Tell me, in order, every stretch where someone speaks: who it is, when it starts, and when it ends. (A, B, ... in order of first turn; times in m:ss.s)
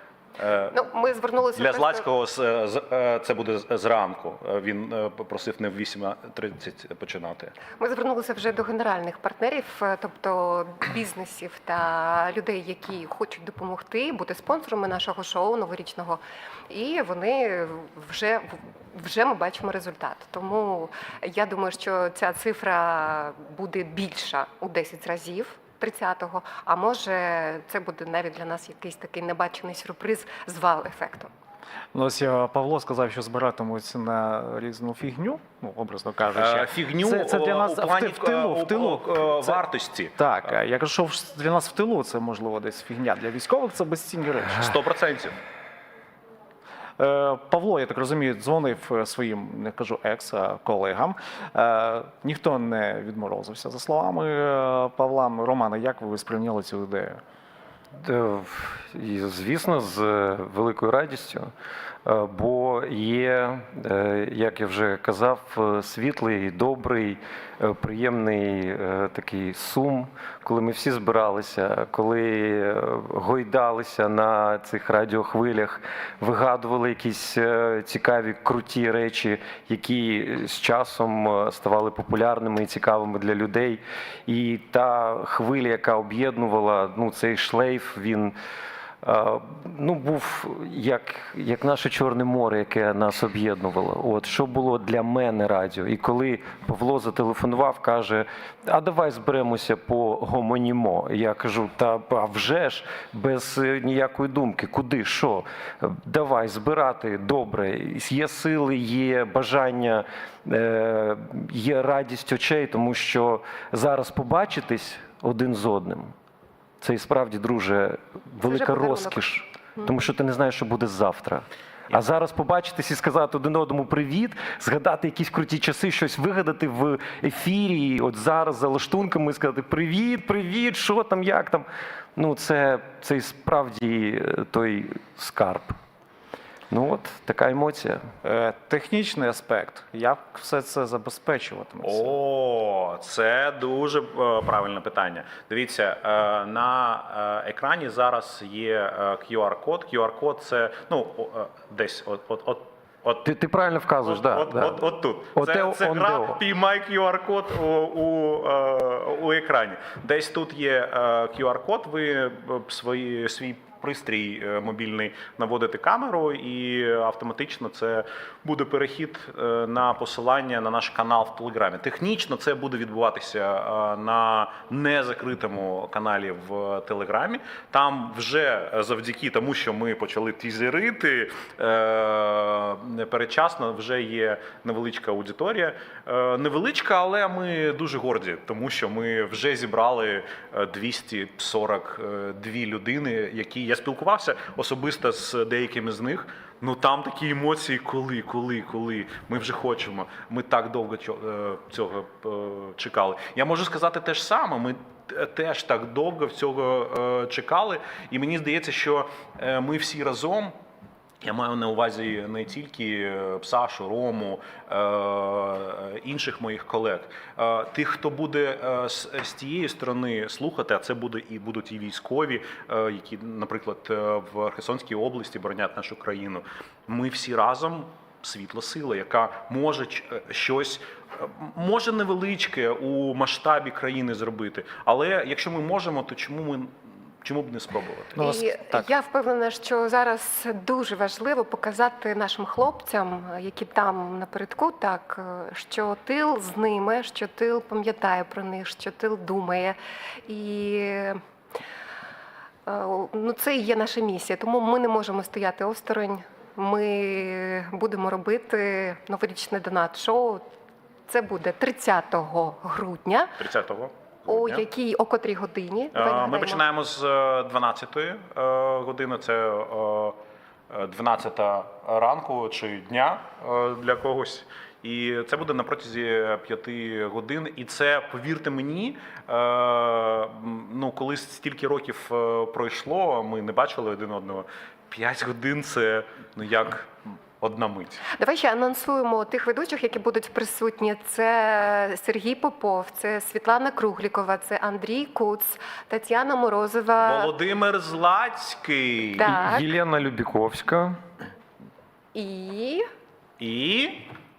0:00.4-0:00.7 A
0:00.7-0:02.0 B
0:01.6-0:07.5 A
0:07.8-0:31.3 B
0:31.9-0:39.6 C
0:36.3-0:40.2 A
0:40.2-0:44.8 C
0:44.5-0:45.4 A
0:47.0-0:57.2 C
0:58.0-1:01.5 D
1:02.0-1:28.3 D
1:29.0-1:56.1 D
1:56.8-2:15.8 D
1:58.4-1:59.2 B
2:16.7-2:18.0 D
2:18.2-2:22.1 C
2:21.8-2:33.2 A
2:33.2-2:34.8 D
2:34.0-3:30.5 A
2:35.3-2:36.4 D
3:31.2-3:58.2 A
3:58.2-3:58.9 C
3:58.2-4:11.2 B
4:12.6-4:20.4 B
4:21.1-4:23.4 B
4:23.4-4:24.6 A
4:24.3-4:26.6 B
4:25.9-4:30.2 A
4:30.7-4:48.0 A
4:48.1-4:57.3 B
4:57.0-4:59.3 A
4:59.2-4:59.6 B
4:59.2-5:01.0 D
5:02.1-5:02.8 B
5:03.4-5:04.1 A